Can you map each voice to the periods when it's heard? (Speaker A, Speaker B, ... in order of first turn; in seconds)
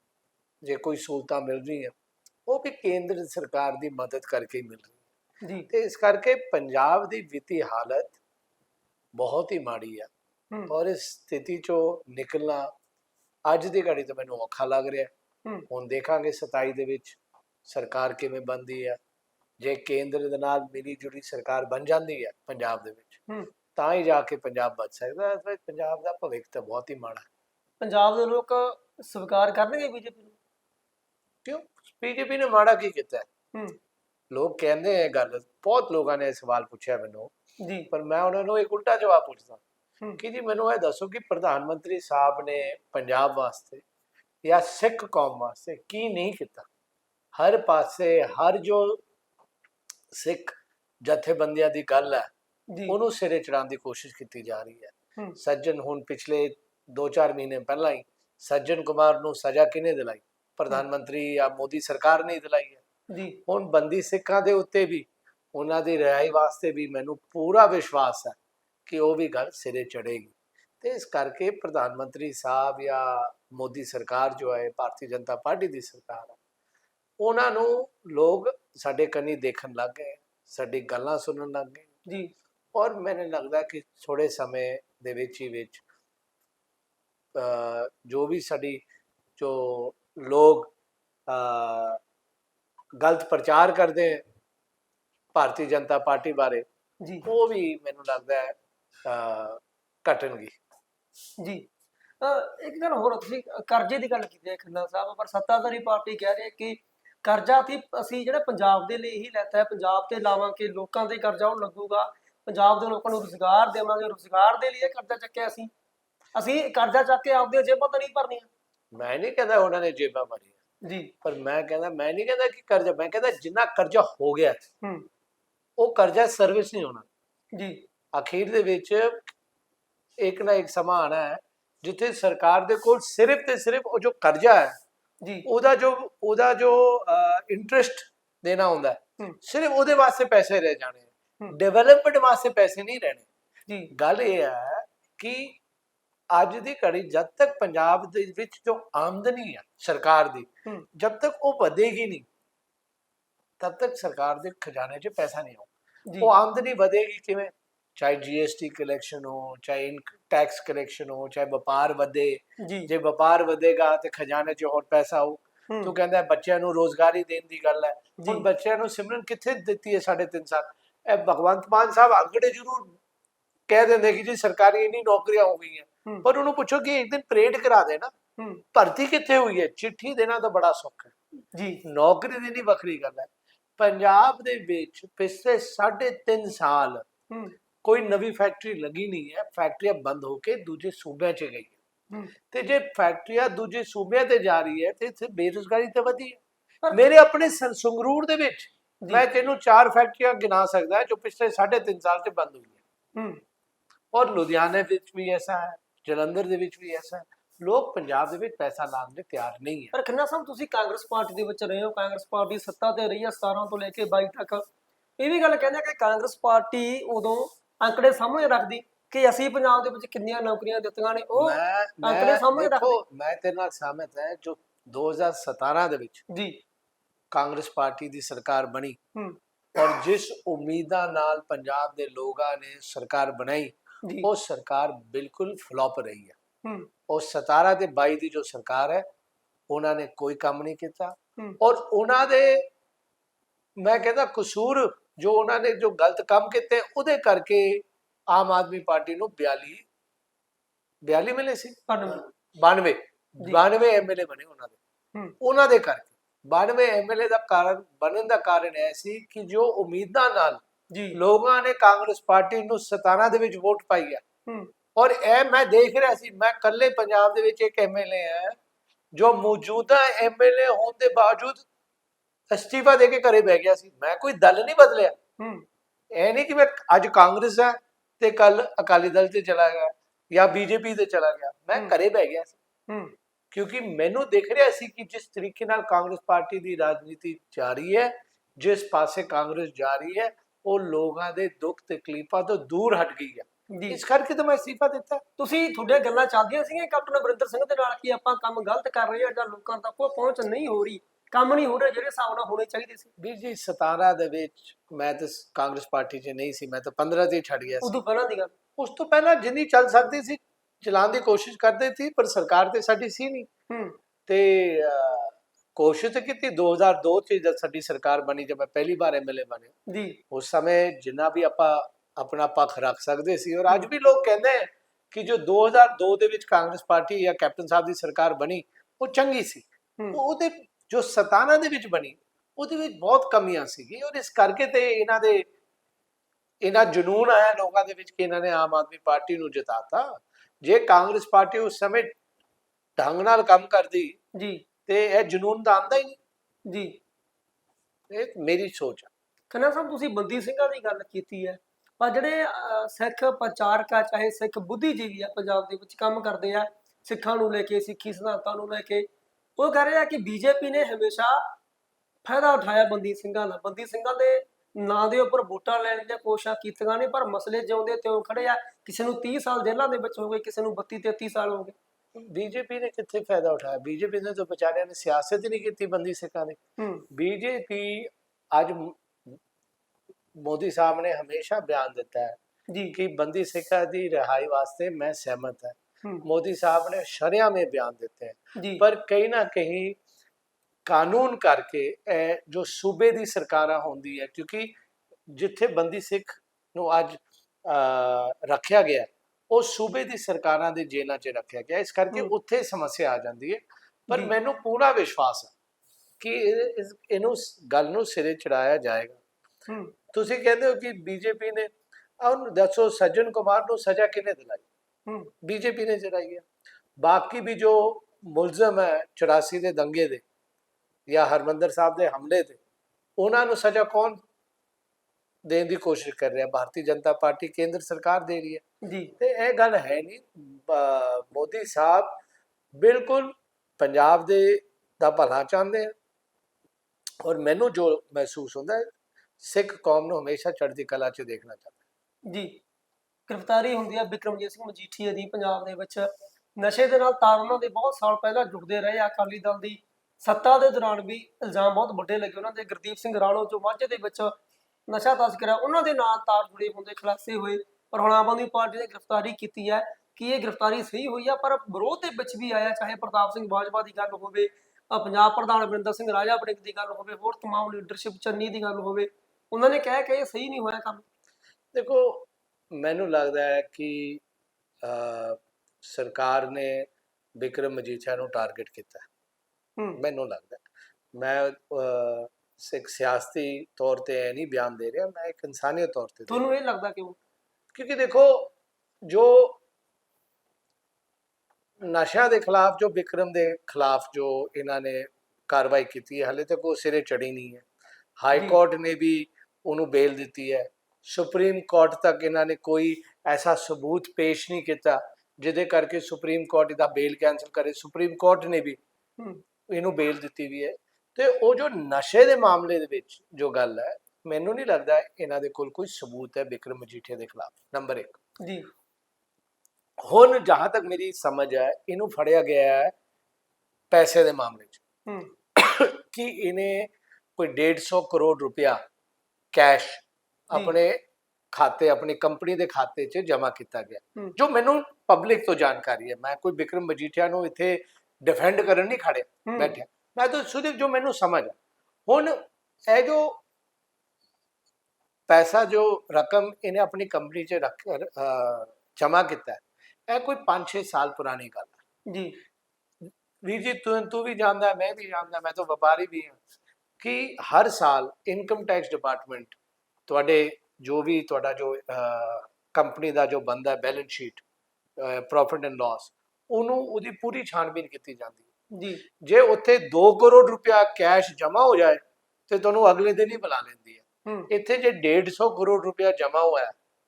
Speaker A: 0.6-1.9, 2.5-5.0, 5.7-8.2, 9.1-10.1, 10.7-12.7, 13.4-15.1, 15.7-19.0, 19.6-23.2, 23.7-27.3, 31.4-33.3, 34.3-37.3, 37.9-39.6, 40.2-43.8, 44.4-46.7, 47.3-49.0, 50.1-52.3, 52.9-62.8, 63.5-76.4, 77.2-81.9, 82.7-85.8, 87.3-88.8, 89.4-90.7, 91.3-92.0, 93.0-94.2, 95.3-96.6, 97.2-100.6, 118.9-120.5, 121.2-124.6, 125.8-127.1, 128.1-129.3, 130.2-134.8, 135.4-143.2, 143.9-145.6, 146.3-152.3, 153.6-155.7, 156.2-173.0, 173.7-178.1, 178.7-181.1, 181.8-187.1, 187.8-191.8, 192.5-196.4, 196.9-202.8, 204.1-209.9, 221.4-226.2, 227.3-229.0, 229.7-236.3, 237.1-239.0, 239.7-242.7, 243.8-249.8, 251.0-254.8, 255.4-260.6, 261.1-264.2, 264.9-268.6, 269.1-271.6, 272.5-275.1, 276.1-282.6, 283.5-295.2, 303.2-308.0, 308.8-313.5, 314.3-319.7, 320.3-335.5, 336.6-342.1, 343.0-344.2, 344.9-346.2, 348.1-349.1, 372.1-376.6, 377.1-379.4, 380.4-382.4, 382.9-390.0, 390.9-394.7, 395.3-405.5, 406.2-409.2, 410.1-414.6, 415.4-416.4, 417.0-420.2, 421.1-422.6, 423.2-424.2, 425.4-428.6, 429.2-432.2, 432.8-435.9, 437.2-441.7, 471.7-474.2, 474.8-479.1, 480.0-486.5, 487.7-488.5, 489.1-489.6, 491.8-497.6, 498.2-508.8, 509.7-518.2, 520.0-522.9, 523.9-524.8, 525.5-528.8, 529.5-531.0, 531.5-543.4, 545.3-551.8, 553.4-556.4, 557.0-564.4, 565.0-568.4, 569.2-576.7
Speaker B: 5.4-5.7, 27.8-30.4, 37.6-37.9, 52.7-53.0, 63.1-63.4, 82.0-82.3, 101.4-101.6, 102.2-115.7, 116.3-118.5, 120.8-121.1, 124.8-125.1, 127.5-127.8, 135.2-135.5, 162.6-162.9, 168.2-168.4, 178.4-178.6, 181.5-181.8, 187.3-187.5, 203.1-203.4, 209.9-214.6, 215.2-223.0, 226.3-226.6, 234.0-234.3, 236.6-236.9, 251.9-252.2, 260.9-261.2, 275.4-275.6, 282.9-283.1, 293.7-294.0, 295.4-303.1, 307.8-308.5, 313.7-313.9, 319.9-320.2, 344.3-344.6, 346.7-347.0, 349.5-359.0, 359.6-361.4, 362.2-371.7, 376.8-377.0, 382.7-382.9, 388.6-388.8, 409.7-409.9, 428.8-429.1, 442.3-442.6, 443.3-454.3, 454.9-471.0, 486.3-487.2, 518.4-518.7, 525.0-525.3, 539.5-539.8, 552.1-552.4, 568.7-569.0